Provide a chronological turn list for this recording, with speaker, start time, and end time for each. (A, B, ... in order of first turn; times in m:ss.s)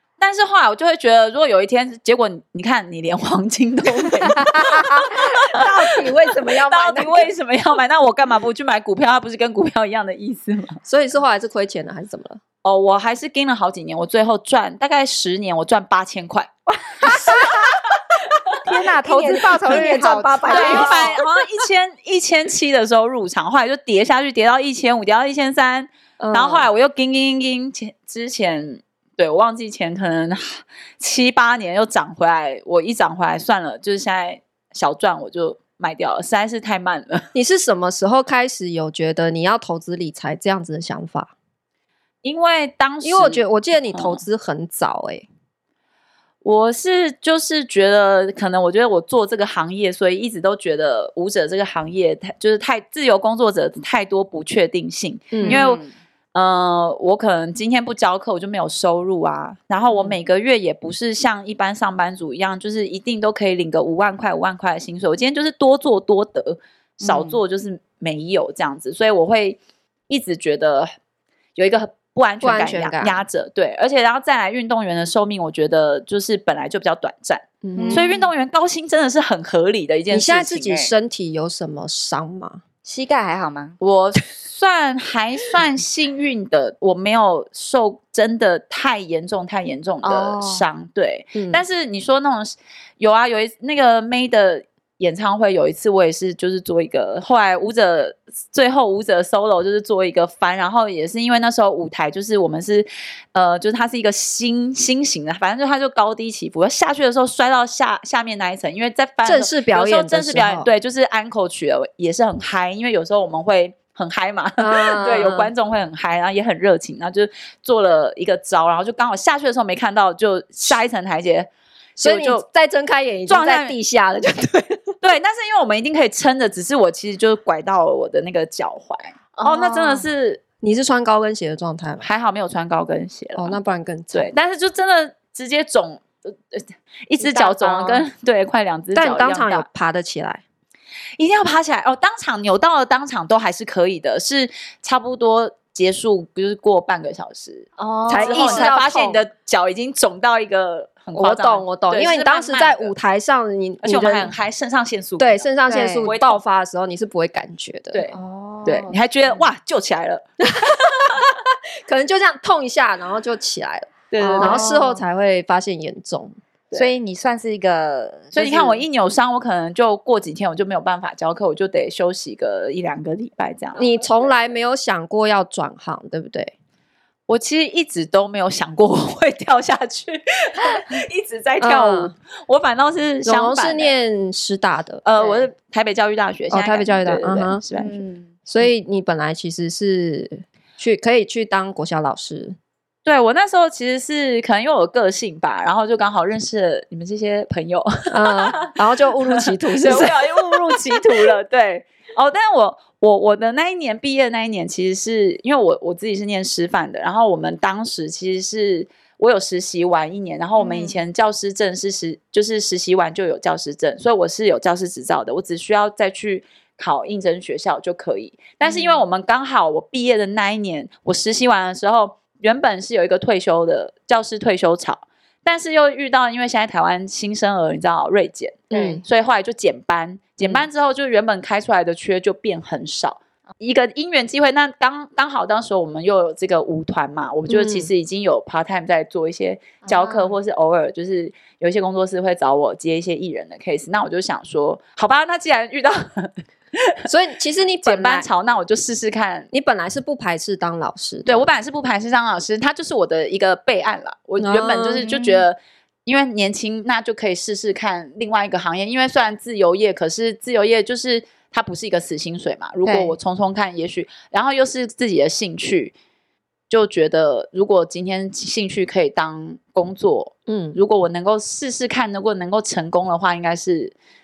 0:00.2-0:10.8 A
0:04.5-0:05.0 B
0:05.3-0:07.3 C
0:10.8-0:12.4 C
0:12.6-0:17.6 A
0:16.9-0:17.6 B
0:18.6-0:21.3 B
0:19.0-0:21.2 C
0:20.5-0:37.3 A
0:26.2-0:26.7 C
0:37.3-0:41.3 C
0:42.2-0:43.4 A
0:43.0-0:45.3 C
0:43.9-0:44.2 A
0:46.4-0:55.8 A
0:55.3-0:55.6 C
0:55.4-0:55.9 B
0:56.3-1:10.9 A
0:59.9-1:00.2 B
1:07.0-1:07.4 B
1:11.6-1:20.9 A
1:12.4-1:13.2 C
1:17.6-1:18.1 C
1:17.8-1:18.3 B
1:20.1-1:22.6 C
1:22.8-1:23.8 B
1:23.8-2:02.4 A
1:30.0-1:30.6 B
1:31.4-1:31.6 C
1:49.2-1:50.7 C
1:54.6-1:55.5 C
2:02.0-2:05.0 C
2:03.3-2:03.8 A
2:05.0-2:10.4 A
2:09.4-2:10.1 B
2:10.6-2:12.1 C
2:12.0-2:13.6 A
2:13.4-2:14.3 C
2:14.1-2:19.7 A
2:17.3-2:18.0 B
2:19.0-2:20.4 C
2:21.2-2:32.9 A
2:27.8-2:28.7 B
2:28.1-2:29.2 C
2:31.2-2:34.3 C
2:33.8-2:35.5 A
2:35.2-2:38.1 C
2:35.7-2:36.1 B
2:36.0-2:36.4 A
2:37.9-2:41.2 A
2:38.1-2:39.5 B
2:40.6-2:41.3 C
2:41.9-2:46.4 C
2:44.1-2:44.7 A
2:44.4-2:45.0 B
2:46.7-2:48.8 B
2:48.3-2:53.9 A
2:53.8-2:56.5 C
2:57.3-3:03.9 A
3:01.6-3:02.1 C
3:03.2-3:05.0 C
3:05.0-3:08.0 A
3:05.2-3:05.5 B
3:06.5-3:07.6 C
3:07.8-3:08.3 B
3:08.5-3:12.6 C
3:13.0-4:07.0 A
3:18.1-3:20.8 C
3:30.6-3:31.0 B
3:38.6-3:39.0 B
3:48.7-3:49.0 C
3:48.7-3:49.0 B
3:57.5-3:57.9 C
3:59.8-4:00.4 B
4:07.1-4:08.3 C
4:07.8-4:09.5 A
4:09.5-4:11.5 C
4:11.3-4:25.9 A
4:14.4-4:15.1 C
4:15.0-4:15.4 B
4:22.9-4:23.2 B
4:26.7-4:33.9 A
4:30.5-4:30.8 C